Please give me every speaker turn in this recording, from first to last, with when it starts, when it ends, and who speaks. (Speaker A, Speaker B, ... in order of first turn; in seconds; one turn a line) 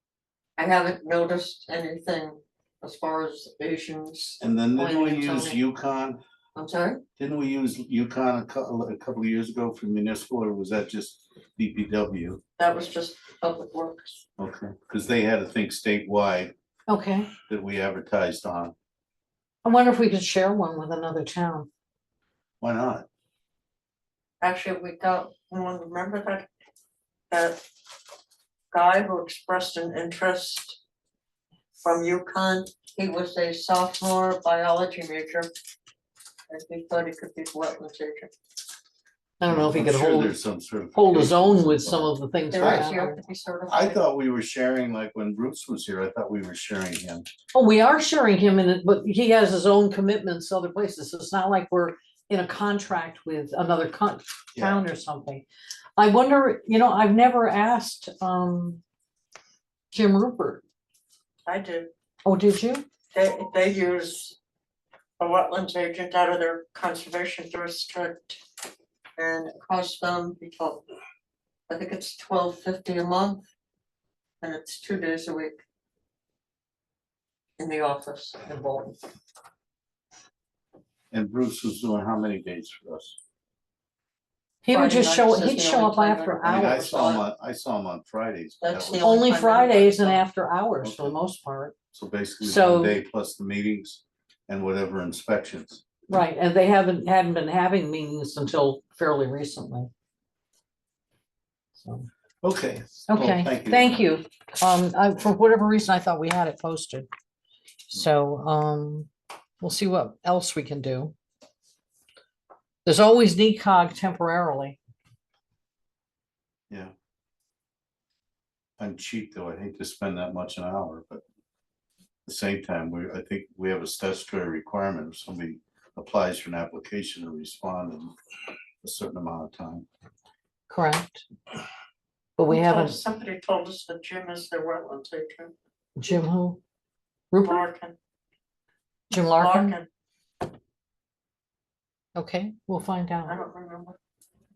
Speaker A: 0.6-5.6
Speaker B: 4.4-6.2
Speaker A: 6.5-7.0
Speaker B: 7.2-12.4
Speaker A: 12.6-14.2
Speaker B: 14.4-16.5
Speaker C: 16.9-17.3
Speaker B: 17.5-18.8
Speaker C: 19.6-21.7
Speaker B: 22.6-23.1
Speaker A: 24.4-26.5
Speaker A: 27.3-27.6
Speaker A: 28.7-30.8
Speaker A: 31.8-35.5
Speaker A: 36.5-38.3
Speaker C: 39.4-40.4
Speaker B: 39.4-42.9
Speaker C: 40.9-43.2
Speaker A: 42.5-44.0
Speaker B: 43.7-47.3
Speaker C: 47.5-55.5
Speaker B: 54.6-54.8
Speaker C: 56.0-58.8
Speaker C: 59.9-60.6
Speaker A: 61.5-61.9
Speaker C: 62.2-62.8
Speaker A: 63.1-64.3
Speaker A: 65.2-68.4
Speaker A: 69.2-70.8
Speaker A: 71.7-73.4
Speaker A: 74.4-75.6
Speaker A: 77.6-79.0
Speaker B: 81.1-83.2
Speaker C: 84.6-86.8
Speaker A: 84.7-87.2
Speaker B: 86.4-89.2
Speaker A: 88.6-90.3
Speaker C: 89.0-91.8
Speaker B: 90.8-91.2
Speaker B: 91.9-95.8
Speaker C: 92.4-93.0
Speaker C: 96.1-99.9
Speaker C: 101.8-102.1
Speaker B: 102.4-104.0
Speaker C: 103.1-107.1
Speaker C: 107.9-109.1
Speaker C: 109.6-111.2
Speaker C: 112.8-114.8
Speaker B: 118.8-121.2
Speaker B: 122.3-128.1
Speaker B: 128.8-129.8
Speaker C: 130.7-131.2
Speaker C: 132.4-133.0
Speaker A: 132.5-135.5
Speaker C: 136.0-136.6
Speaker C: 137.3-137.6
Speaker A: 137.4-138.0
Speaker C: 139.1-139.8
Speaker A: 139.1-139.9
Speaker C: 142.2-143.4
Speaker A: 143.3-144.0